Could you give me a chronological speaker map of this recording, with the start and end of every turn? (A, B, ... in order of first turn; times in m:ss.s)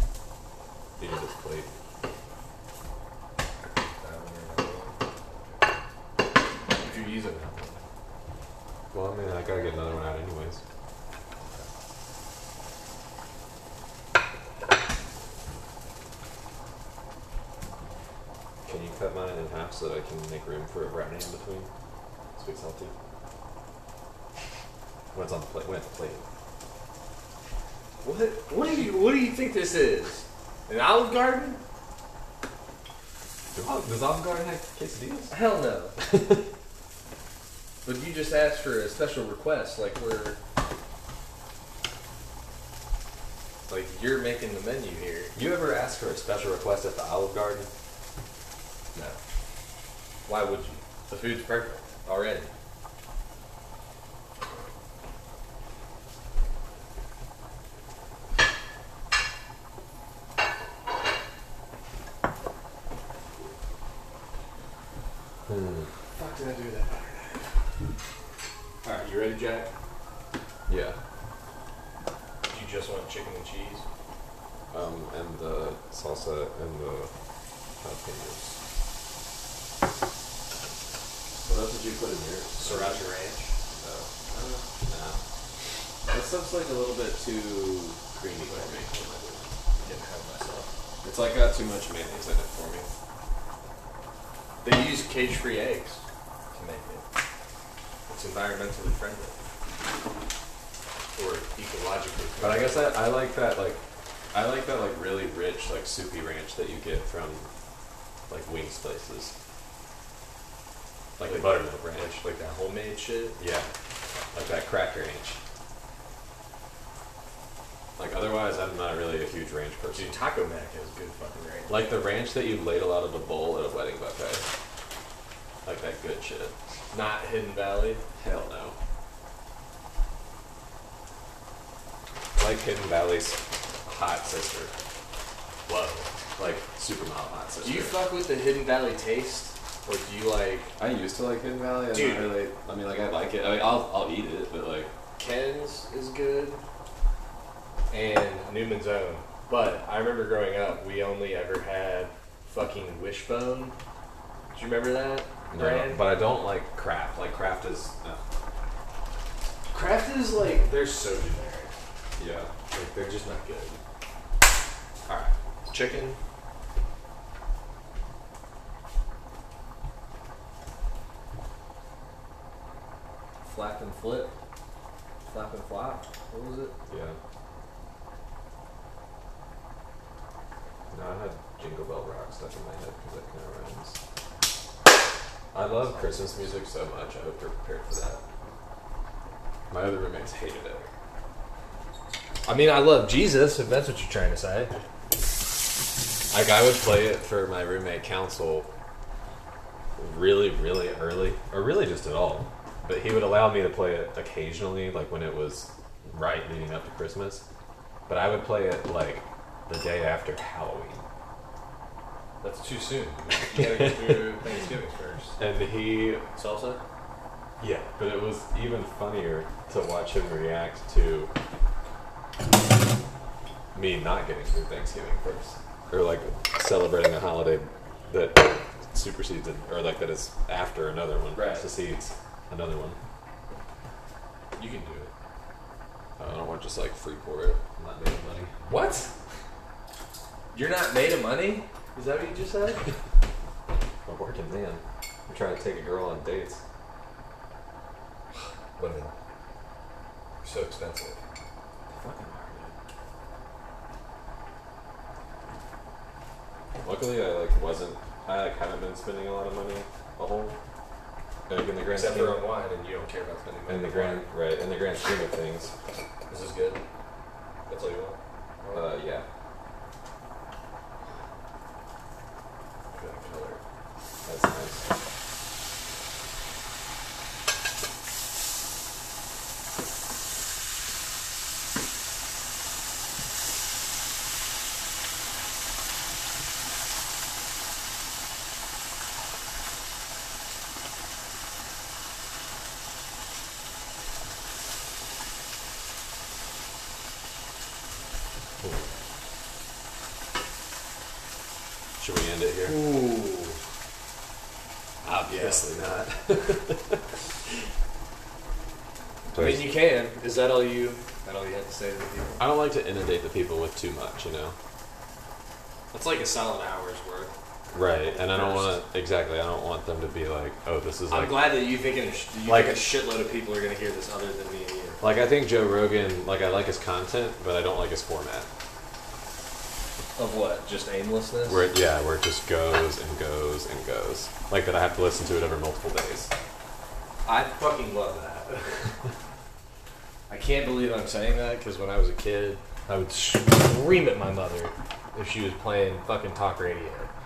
0:01.0-0:01.7 A
0:04.0-0:05.6 B
0:06.7-0:07.8 B
0:08.9-0:10.6 A
0:18.7-0:21.7 A
0:22.4-0:22.9 A
0:25.1-0:26.2 A
0:28.0-0:31.6 B
0:33.5-0:35.4 A
0:35.3-0:35.9 B
0:36.0-0:36.4 A
0:37.8-0:40.4 B
0:43.7-0:45.3 B
0:45.3-0:47.7 A
0:50.3-0:52.5 B
1:05.5-1:05.9 A
1:06.2-1:07.6 B
1:08.8-1:09.7 B
1:10.7-1:11.0 A
1:12.5-1:13.8 B
1:14.7-1:17.1 A
1:17.8-1:18.6 A
1:21.4-1:23.1 A
1:22.6-1:24.1 B
1:24.3-1:25.2 A
1:26.1-1:29.5 A
1:29.8-1:30.7 B
1:31.0-1:32.9 A
1:34.6-1:37.0 B
1:38.1-1:39.4 B
1:41.2-1:42.9 B
1:42.4-1:43.8 A
1:44.3-1:47.5 A
1:48.3-1:49.3 A
1:51.2-1:52.2 A
1:51.2-1:53.4 B
1:53.4-1:53.7 A
1:54.3-1:55.4 A
1:58.0-2:00.2 A
2:00.0-2:01.8 B
2:01.7-2:04.4 A
2:05.6-2:06.5 A
2:06.9-2:08.0 B
2:08.2-2:08.8 A
2:12.4-2:14.7 A
2:15.7-2:16.1 B
2:16.4-2:18.0 A
2:17.6-2:20.7 B
2:20.8-2:24.9 A
2:21.9-2:22.4 B
2:25.2-2:26.6 B
2:27.9-2:33.8 B
2:34.5-2:36.0 B
2:35.5-2:38.2 A
2:39.7-2:41.7 B
2:42.2-2:42.5 A
2:42.7-2:43.8 B
2:45.1-2:45.3 A
2:45.7-2:46.2 B
2:53.4-2:54.4 B
2:55.2-2:56.7 B
2:56.9-2:57.2 A
3:00.9-3:04.0 A
3:05.5-3:08.2 A
3:05.8-3:06.4 B
3:09.7-3:10.9 A
3:12.5-3:14.7 B
3:16.3-3:18.7 A
3:20.0-3:27.4 A
3:28.1-3:31.0 A
3:32.4-3:35.4 B
3:33.5-3:34.4 A
3:35.4-3:36.2 A
3:36.4-3:36.8 B
3:37.6-3:41.3 A
3:43.7-3:53.0 A
3:51.3-3:51.7 B
3:54.6-3:55.1 B
3:56.2-3:58.5 A
3:58.6-3:59.1 B
4:00.5-4:02.8 B
4:04.1-4:06.6 A
4:08.8-4:09.1 B
4:10.4-4:11.2 B
4:11.9-4:12.8 A
4:16.8-4:20.6 A
4:21.5-4:22.4 A
4:21.9-4:24.3 B
4:23.7-4:25.7 A
4:26.3-4:26.8 B
4:27.7-4:28.9 B
4:28.7-4:29.2 A
4:32.9-4:33.6 B
4:34.2-4:34.8 A
5:02.0-5:02.8 A
5:02.6-5:03.6 B
5:05.0-5:07.2 A
5:05.3-5:05.6 B
5:09.3-5:09.7 A
5:09.4-5:12.4 B
5:12.4-5:14.6 A
5:15.9-5:17.3 B
5:17.7-5:21.5 A
5:18.1-5:18.8 B
5:21.1-5:25.0 B
5:22.4-5:22.9 A
5:25.0-5:28.5 A
5:30.2-5:31.6 B
5:31.5-5:36.3 A
5:37.2-5:38.7 B
5:40.3-5:47.1 B